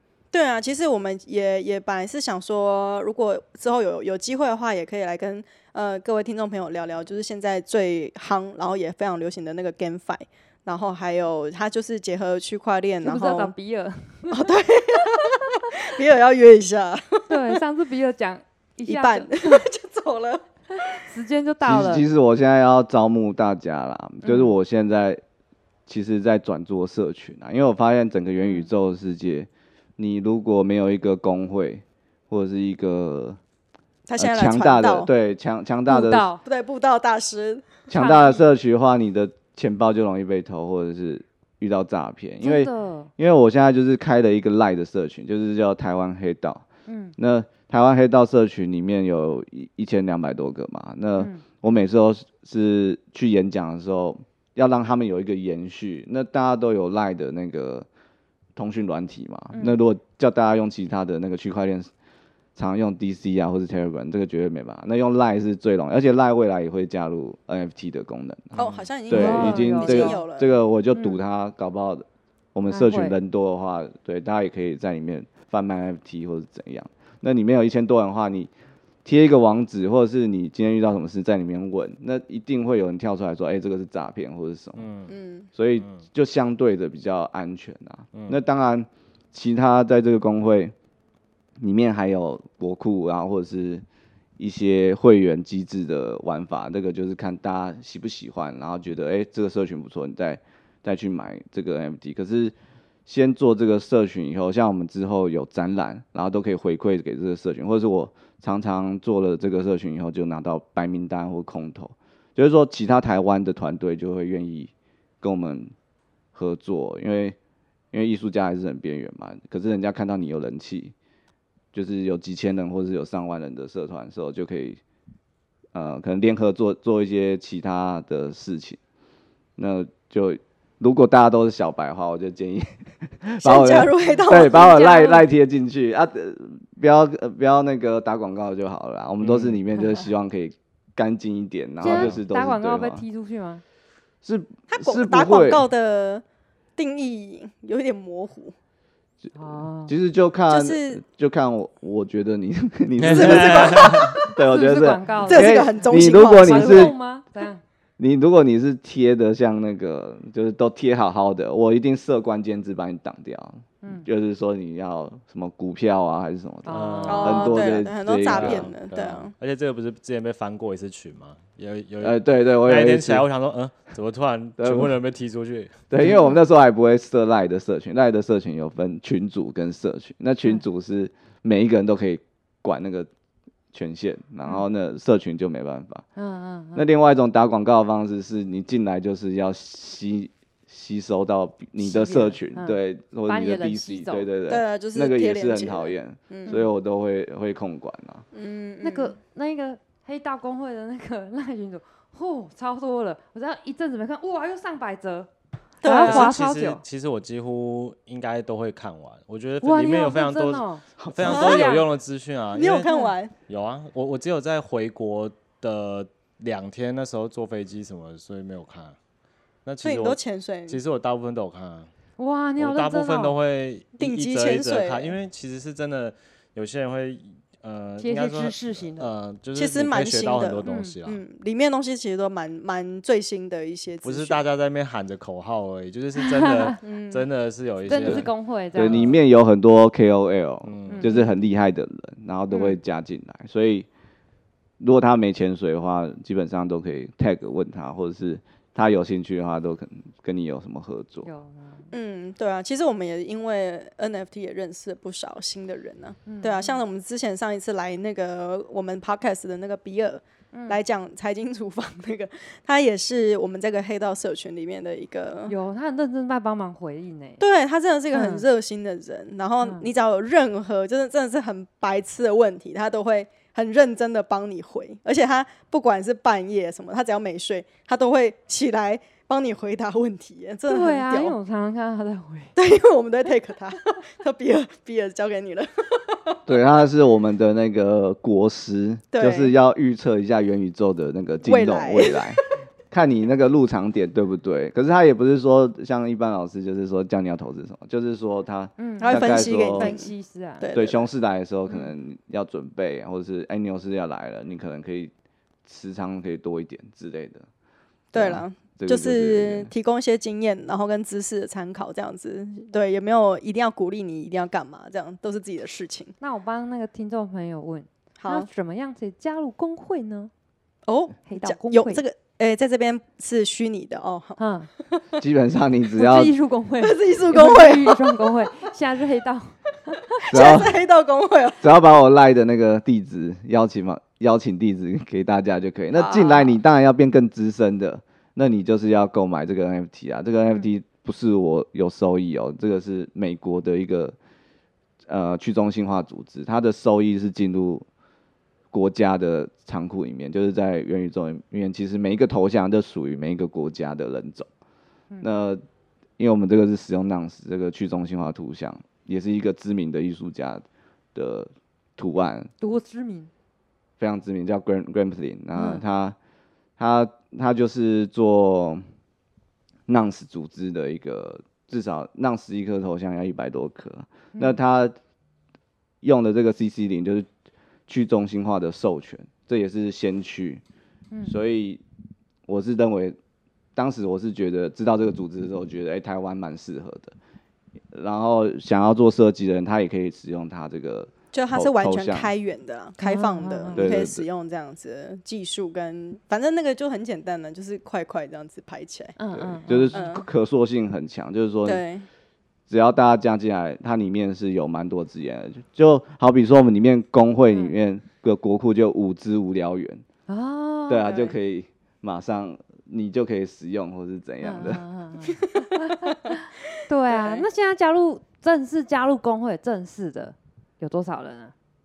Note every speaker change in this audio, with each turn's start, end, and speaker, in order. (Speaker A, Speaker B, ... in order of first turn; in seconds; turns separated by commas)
Speaker A: 0.3-13.5, Speaker B: 13.0-14.5, Speaker A: 14.3-17.6, Speaker B: 17.3-19.7, Speaker A: 18.9-20.4, Speaker B: 20.7-22.0, Speaker C: 21.6-25.2, Speaker B: 24.2-24.5, Speaker C: 25.9-33.4, Speaker A: 34.1-35.1, Speaker C: 34.1-36.3, Speaker B: 35.9-36.4, Speaker A: 36.4-37.8, Speaker C: 37.9-46.6, Speaker B: 37.9-38.4, Speaker B: 42.4-43.1, Speaker B: 46.9-47.1, Speaker C: 47.2-57.9, Speaker B: 51.2-51.4, Speaker C: 58.5-61.9, Speaker B: 59.5-59.8, Speaker C: 62.5-78.5, Speaker D: 68.5-68.8, Speaker A: 68.6-70.5, Speaker B: 69.1-70.2, Speaker B: 70.9-71.2, Speaker B: 72.7-73.2, Speaker C: 79.0-84.9, Speaker D: 84.8-85.1, Speaker A: 85.1-85.5, Speaker C: 85.5-90.7, Speaker D: 85.8-86.0, Speaker D: 88.1-88.4, Speaker C: 91.6-93.8, Speaker C: 94.4-102.5, Speaker C: 103.0-115.7, Speaker C: 116.3-117.4, Speaker C: 117.9-120.9, Speaker C: 121.7-124.8, Speaker C: 125.7-128.8, Speaker C: 129.6-143.0, Speaker A: 133.4-134.8, Speaker B: 134.2-135.2, Speaker D: 139.2-139.6, Speaker D: 141.8-142.2, Speaker B: 141.8-143.6, Speaker C: 144.2-145.6, Speaker A: 144.7-146.2, Speaker A: 146.8-148.5, Speaker B: 149.3-149.9, Speaker C: 149.9-156.9, Speaker A: 150.5-151.0, Speaker D: 153.0-154.1, Speaker A: 153.1-154.2, Speaker B: 154.4-157.6, Speaker A: 155.2-156.9, Speaker C: 158.0-168.7, Speaker B: 163.8-164.1, Speaker B: 166.6-167.6, Speaker D: 166.7-167.6, Speaker A: 167.1-169.3, Speaker D: 168.2-176.2, Speaker C: 172.0-173.3, Speaker C: 174.6-174.9, Speaker C: 175.9-183.1, Speaker B: 176.0-176.3, Speaker C: 183.7-186.0, Speaker B: 186.2-186.9, Speaker C: 186.7-198.2, Speaker B: 191.8-194.3, Speaker A: 194.5-196.6, Speaker A: 198.3-199.2, Speaker B: 198.8-205.3, Speaker A: 205.8-206.3, Speaker B: 205.8-206.8, Speaker D: 206.0-212.9, Speaker B: 209.6-211.9, Speaker C: 211.0-211.6, Speaker A: 211.2-211.7, Speaker A: 212.5-213.3, Speaker B: 212.8-213.1, Speaker D: 213.5-219.0, Speaker D: 219.7-221.9, Speaker A: 219.8-220.8, Speaker B: 222.2-223.3, Speaker D: 222.6-231.2, Speaker A: 224.0-225.2, Speaker B: 228.0-229.1, Speaker A: 229.5-234.4, Speaker B: 230.6-230.9, Speaker D: 234.0-239.2, Speaker B: 236.2-236.7, Speaker A: 236.8-237.3, Speaker B: 237.8-239.1, Speaker C: 238.0-243.9, Speaker D: 240.6-241.2, Speaker B: 240.9-241.2, Speaker B: 242.5-242.8, Speaker C: 244.8-251.3, Speaker B: 251.2-251.9, Speaker A: 251.9-265.5, Speaker B: 256.2-256.8, Speaker B: 260.5-260.8, Speaker B: 265.5-267.4, Speaker A: 267.4-281.3, Speaker B: 268.1-268.4, Speaker B: 269.6-269.9, Speaker B: 280.7-282.5, Speaker A: 282.6-286.4, Speaker C: 286.4-299.9, Speaker A: 289.1-289.5, Speaker A: 291.4-292.4, Speaker B: 298.8-300.7, Speaker A: 299.0-301.1, Speaker C: 300.7-305.1, Speaker C: 305.6-307.4, Speaker A: 308.1-316.1, Speaker C: 308.1-309.7, Speaker B: 316.2-320.3, Speaker A: 318.2-318.5, Speaker A: 320.9-325.0, Speaker B: 321.2-322.0, Speaker B: 324.4-324.7, Speaker C: 325.2-326.3, Speaker B: 325.9-330.6, Speaker A: 326.8-328.3, Speaker A: 330.3-331.7, Speaker C: 330.3-330.7, Speaker C: 331.6-344.1, Speaker A: 335.9-336.6, Speaker C: 345.1-347.9, Speaker C: 348.7-354.5, Speaker C: 355.2-355.6, Speaker C: 356.2-362.5, Speaker B: 362.6-363.3, Speaker C: 364.0-366.1, Speaker B: 365.5-365.8, Speaker C: 366.8-368.8, Speaker C: 369.9-374.9, Speaker C: 376.0-377.3, Speaker C: 377.9-380.6, Speaker B: 381.1-381.4, Speaker C: 381.3-381.8, Speaker C: 382.5-383.2, Speaker C: 383.8-387.1, Speaker C: 387.9-392.3, Speaker A: 391.3-399.1, Speaker B: 393.0-393.9, Speaker C: 393.7-394.2, Speaker B: 399.2-400.1, Speaker C: 399.3-401.8, Speaker A: 399.9-400.2, Speaker A: 401.6-402.1, Speaker C: 402.7-410.0, Speaker B: 407.5-407.7, Speaker B: 410.3-411.1, Speaker C: 410.9-414.8, Speaker A: 411.0-411.3, Speaker B: 414.4-421.5, Speaker A: 417.1-417.5